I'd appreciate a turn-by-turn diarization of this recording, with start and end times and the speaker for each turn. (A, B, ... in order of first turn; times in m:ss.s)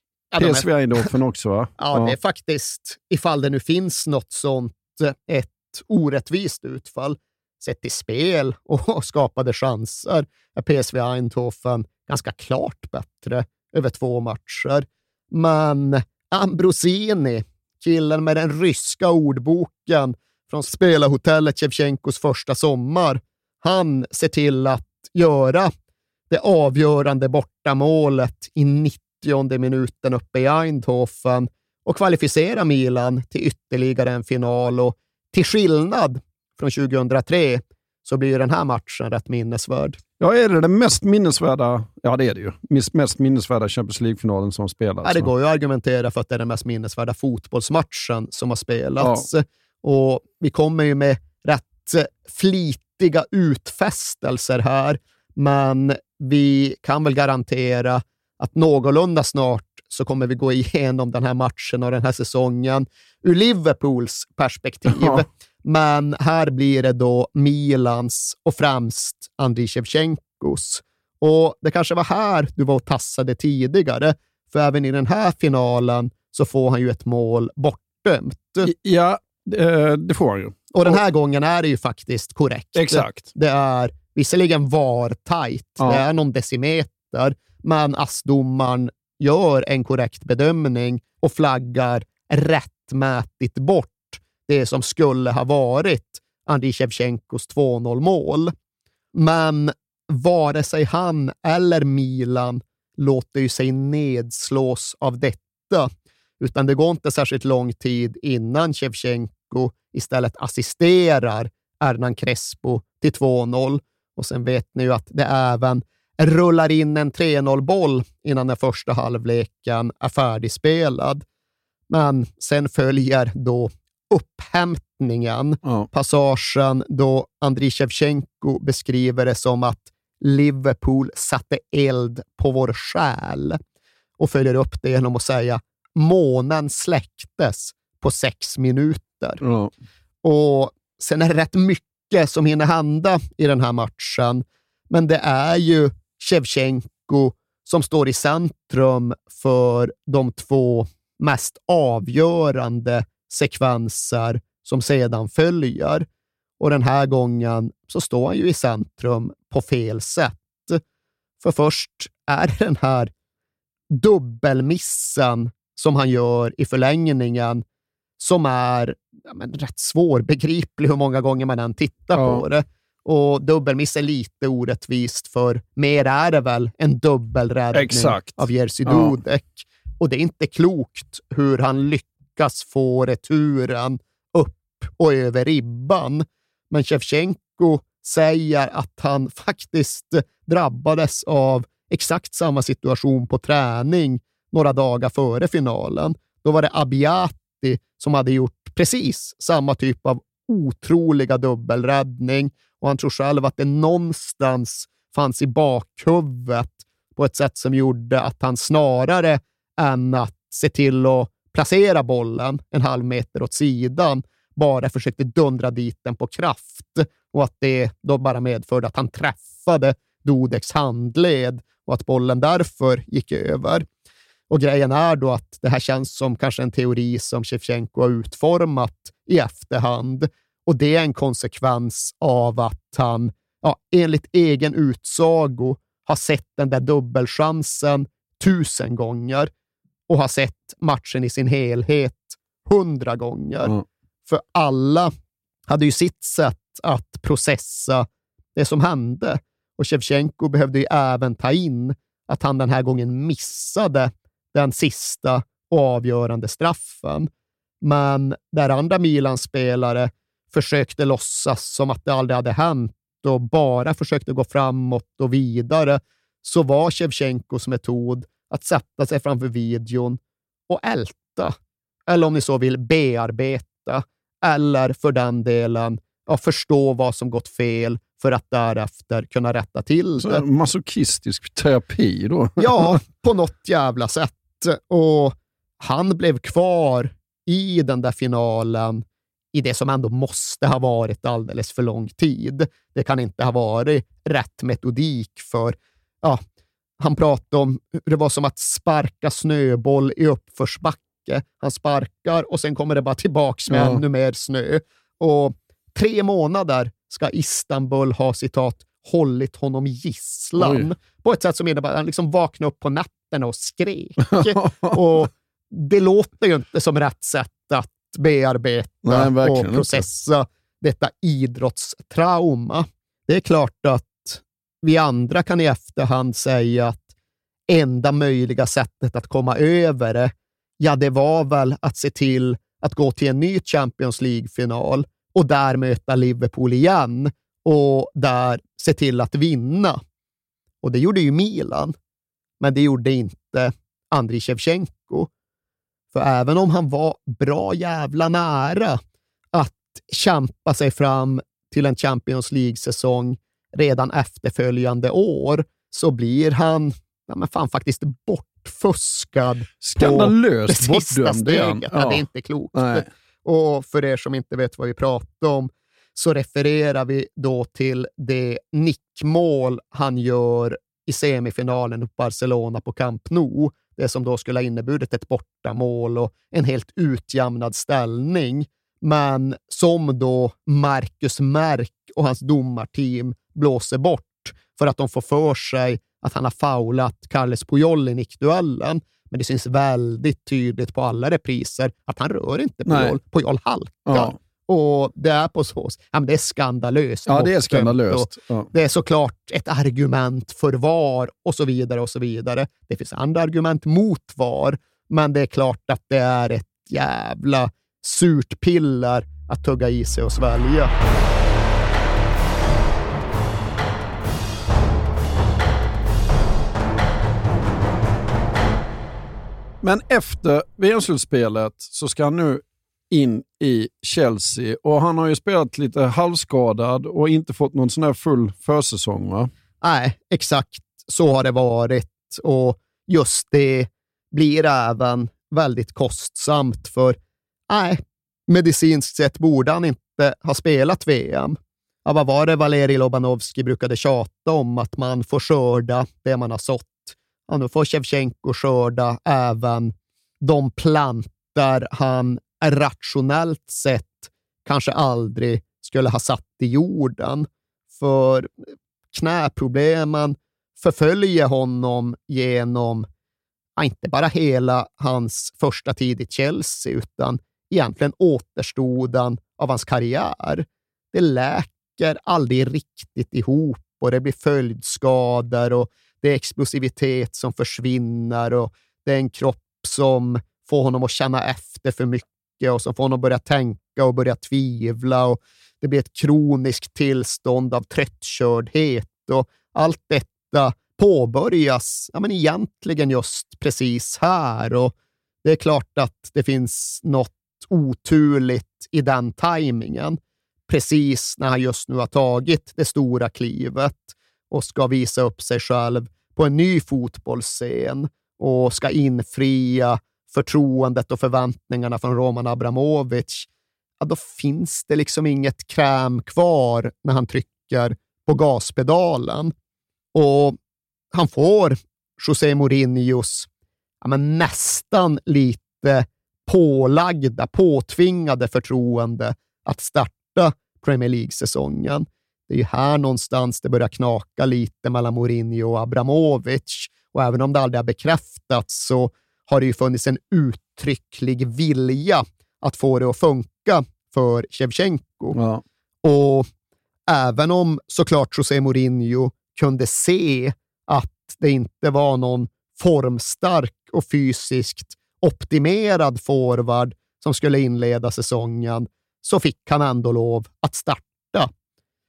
0:00.3-0:01.1 A
0:00.4-0:02.2 B
0:01.8-0:25.7 A
0:26.3-0:40.0 A
0:40.2-0:45.3 B
0:45.0-1:18.7 A
0:49.0-0:49.2 B
1:04.9-1:05.2 B
1:18.6-1:21.0 B
1:20.7-1:38.5 A
1:22.7-1:23.3 B
1:25.8-1:26.0 B
1:39.1-2:01.2 A
2:01.9-2:13.6 A
2:14.2-2:19.4 A
2:19.4-2:19.7 B
2:20.2-2:36.0 A
2:36.6-2:40.8 A
2:41.4-2:43.1 A
2:43.9-2:47.6 A
2:48.2-3:43.8 A
2:52.1-2:52.4 B
2:57.7-2:59.2 B
3:44.5-3:59.5 A
4:00.1-4:03.7 A
4:04.3-4:05.1 A
4:05.7-4:17.3 A
4:17.8-4:31.5 A
4:32.1-4:40.4 A
4:40.2-4:43.0 B
4:42.6-4:56.4 A
4:57.0-5:27.0 A
5:03.7-5:04.0 B
5:10.6-5:10.9 B
5:14.2-5:15.3 B
5:19.0-5:20.0 B
5:27.7-5:40.0 A
5:40.8-5:41.9 A
5:42.6-5:45.3 A
5:46.1-5:49.0 A
5:49.5-6:50.9 A
5:59.8-6:03.1 B
6:32.8-6:33.2 B
6:34.0-6:34.4 B
6:37.3-6:38.7 B
6:59.8-7:09.5 B
7:09.8-7:17.2 A
7:17.7-7:38.5 A
7:39.1-7:43.0 A
7:43.8-8:14.9 A
8:15.4-8:33.5 A
8:34.0-8:39.5 A
8:40.1-8:40.6 A
8:41.1-8:43.5 A
8:44.0-9:05.4 A
9:05.3-9:05.6 B
9:06.0-9:06.5 A
9:07.1-9:21.5 A